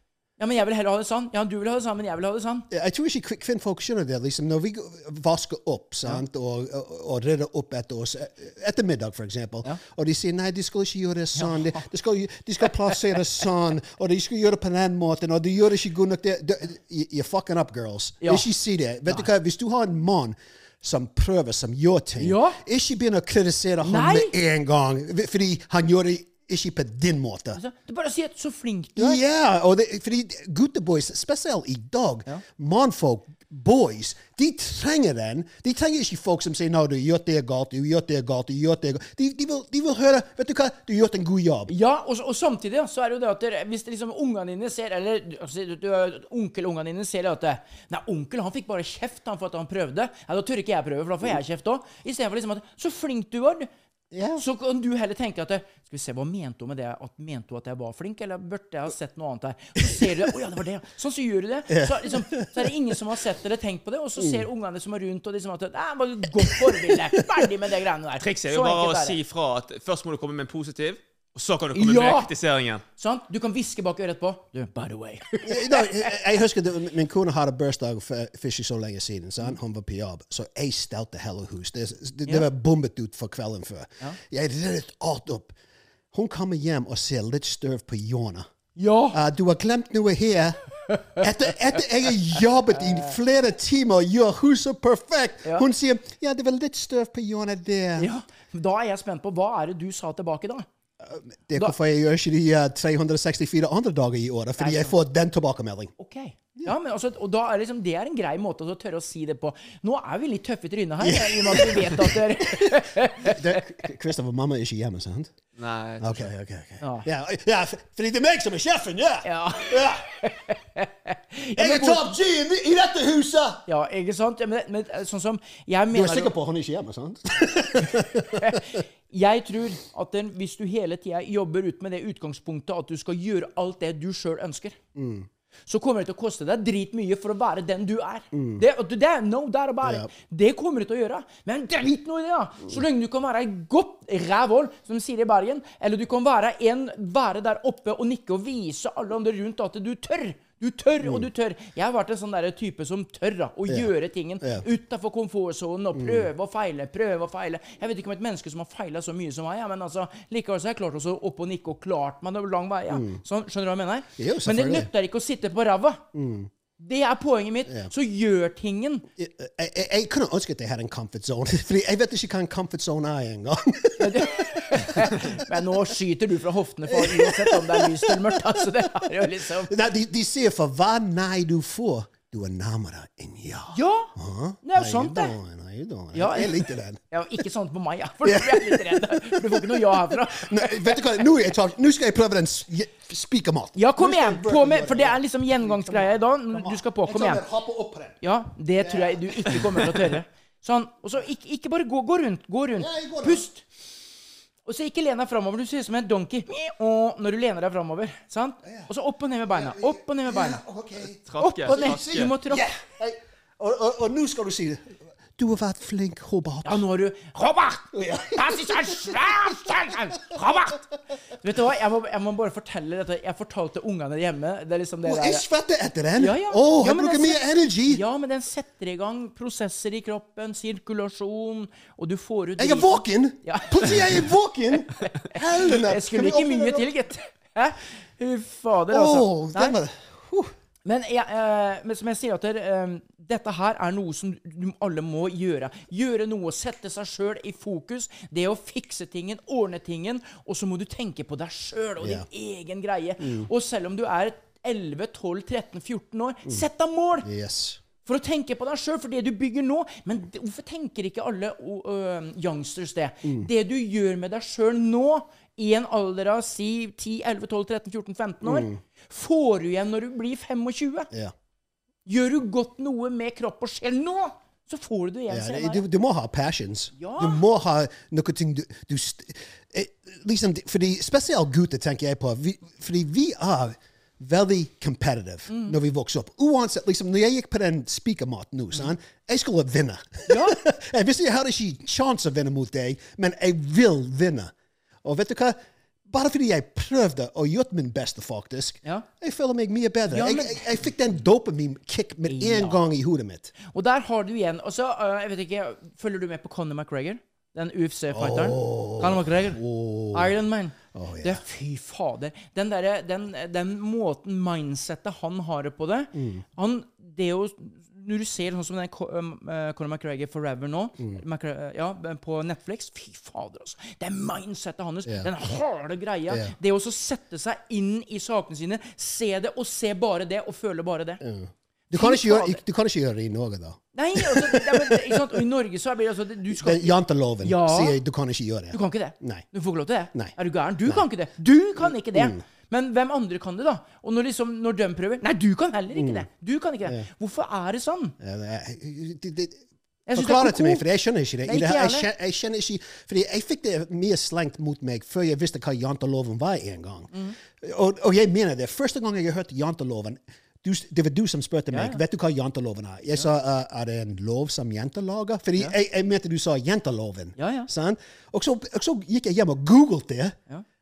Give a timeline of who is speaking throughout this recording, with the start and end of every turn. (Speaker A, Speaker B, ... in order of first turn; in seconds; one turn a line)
Speaker A: 0.4-2.7
Speaker B: 2.7-27.6
Speaker A: 11.3-11.8
Speaker A: 22.2-22.6
Speaker A: 23.8-24.3
Speaker A: 27.5-29.2
Speaker B: 28.9-41.7
Speaker A: 41.7-53.7
Speaker B: 54.1-54.4
Speaker A: 54.4-69.2
Speaker B: 61.7-62.7
Speaker B: 64.2-64.5
Speaker B: 66.4-67.2
Speaker C: 68.2-72.8
Speaker A: 71.7-72.3
Speaker A: 73.0-76.1
Speaker B: 75.4-85.5
Speaker B: 86.1-88.5
Speaker A: 88.8-89.2
Speaker B: 89.1-90.6
Speaker B: 91.2-98.1
Speaker A: 98.0-100.7
Speaker B: 101.0-105.9
Speaker A: 104.6-104.9
Speaker A: 106.0-113.6
Speaker B: 111.0-115.3
Speaker C: 115.6-116.2
Speaker B: 116.0-120.0
Speaker A: 116.8-117.1
Speaker A: 119.2-122.0
Speaker B: 121.5-123.6
Speaker A: 123.7-126.3
Speaker B: 125.9-128.6
Speaker A: 127.9-134.8
Speaker B: 134.9-135.3
Speaker A: 135.7-166.0
Speaker B: 138.3-138.6
Speaker B: 151.0-151.2
Speaker B: 155.9-156.3
Speaker B: 162.9-163.2
Speaker B: 164.2-164.9
Speaker B: 166.1-166.5
Speaker A: 166.8-169.1
Speaker B: 169.2-175.8
Speaker A: 174.0-179.7
Speaker B: 176.9-187.0
Speaker A: 183.7-184.1
Speaker A: 184.6-185.3
Speaker A: 186.1-191.2
Speaker B: 188.2-198.2
Speaker A: 193.7-197.4
Speaker A: 198.2-203.6
Speaker B: 198.8-200.1
Speaker B: 202.8-203.4
Speaker A: 204.6-210.6
Speaker B: 209.5-216.8
Speaker C: 211.2-212.3
Speaker A: 211.4-212.6
Speaker A: 216.6-220.8
Speaker B: 217.9-220.4
Speaker A: 221.4-225.4
Speaker B: 225.0-228.0
Speaker A: 226.2-234.0
Speaker B: 232.6-236.9
Speaker A: 235.0-239.8
Speaker B: 238.9-240.5
Speaker A: 240.8-257.3
Speaker B: 252.0-252.2
Speaker B: 253.2-253.5
Speaker B: 257.2-257.8
Speaker A: 258.0-271.1
Speaker B: 263.2-263.5
Speaker B: 268.4-268.8
Speaker A: 272.1-275.8
Speaker B: 275.3-294.5
Speaker A: 277.0-277.4
Speaker A: 285.5-285.8
Speaker A: 290.3-290.6
Speaker B: 295.0-303.5
Speaker A: 300.1-300.7
Speaker A: 302.3-302.8
Speaker A: 303.6-309.6
Speaker B: 308.1-310.3
Speaker A: 310.1-331.2
Speaker B: 310.9-311.4
Speaker B: 316.1-316.4
Speaker B: 331.2-335.3
Speaker A: 331.9-332.6
Speaker A: 333.9-338.0
Speaker B: 336.5-339.5
Speaker A: 338.7-348.1
Speaker B: 340.1-341.1
Speaker B: 341.8-342.4
Speaker B: 345.9-346.2
Speaker B: 348.2-349.6
Speaker A: 350.1-350.8
Speaker B: 350.1-370.4
Speaker A: 351.4-352.1
Speaker A: 361.7-362.0
Speaker A: 367.4-367.7